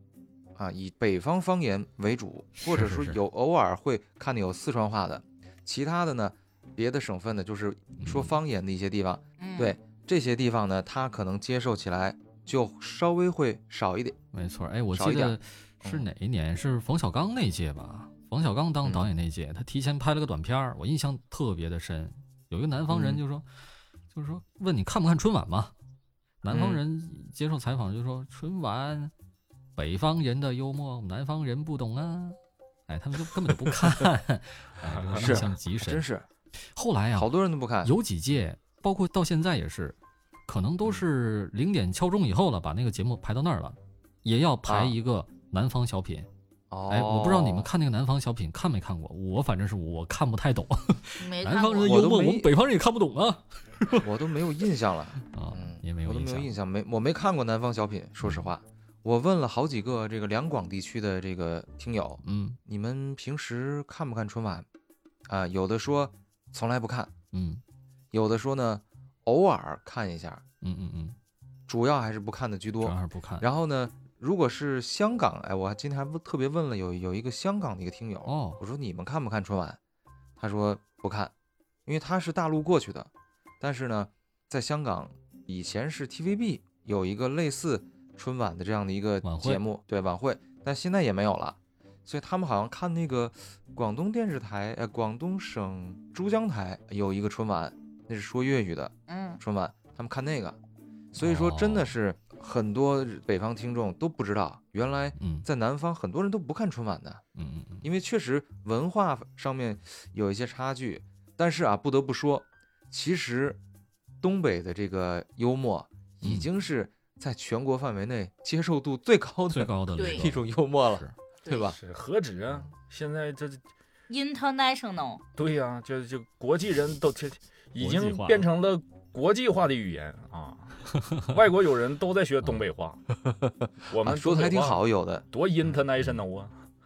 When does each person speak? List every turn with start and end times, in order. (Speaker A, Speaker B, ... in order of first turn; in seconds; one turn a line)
Speaker A: 0.6-14.2
Speaker B: 2.6-3.2
Speaker B: 8.0-8.3
Speaker C: 9.4-9.8
Speaker B: 14.3-23.5
Speaker A: 14.9-16.1
Speaker A: 22.9-23.2
Speaker B: 24.1-25.7
Speaker B: 26.4-29.1
Speaker A: 26.5-26.8
Speaker B: 29.8-36.0
Speaker D: 34.9-35.2
Speaker A: 35.2-36.3
Speaker B: 36.6-37.3
Speaker A: 37.2-37.9
Speaker B: 37.8-40.0
Speaker B: 40.5-46.3
Speaker A: 44.7-45.0
Speaker A: 46.7-47.7
Speaker B: 46.9-54.1
Speaker C: 51.2-52.0
Speaker A: 51.8-52.5
Speaker A: 54.0-64.7
Speaker B: 55.2-56.5
Speaker B: 62.2-62.6
Speaker A: 65.3-67.1
Speaker B: 67.3-67.6
Speaker A: 68.1-70.4
Speaker B: 70.6-71.2
Speaker A: 71.7-79.8
Speaker B: 72.8-73.5
Speaker B: 78.3-78.6
Speaker A: 80.4-81.3
Speaker A: 81.9-100.6
Speaker B: 89.2-89.6
Speaker C: 99.1-99.4
Speaker A: 101.1-107.2
Speaker B: 101.2-102.0
Speaker B: 105.2-105.5
Speaker B: 107.3-107.8
Speaker A: 107.8-113.6
Speaker A: 114.2-121.8
Speaker B: 116.2-116.5
Speaker B: 119.5-121.1
Speaker C: 120.0-120.3
Speaker C: 121.5-121.7
Speaker D: 121.8-123.6
Speaker C: 124.1-125.2
Speaker D: 125.3-133.0
Speaker B: 127.8-128.5
Speaker B: 130.9-131.4
Speaker A: 133.2-135.2
Speaker D: 133.9-136.5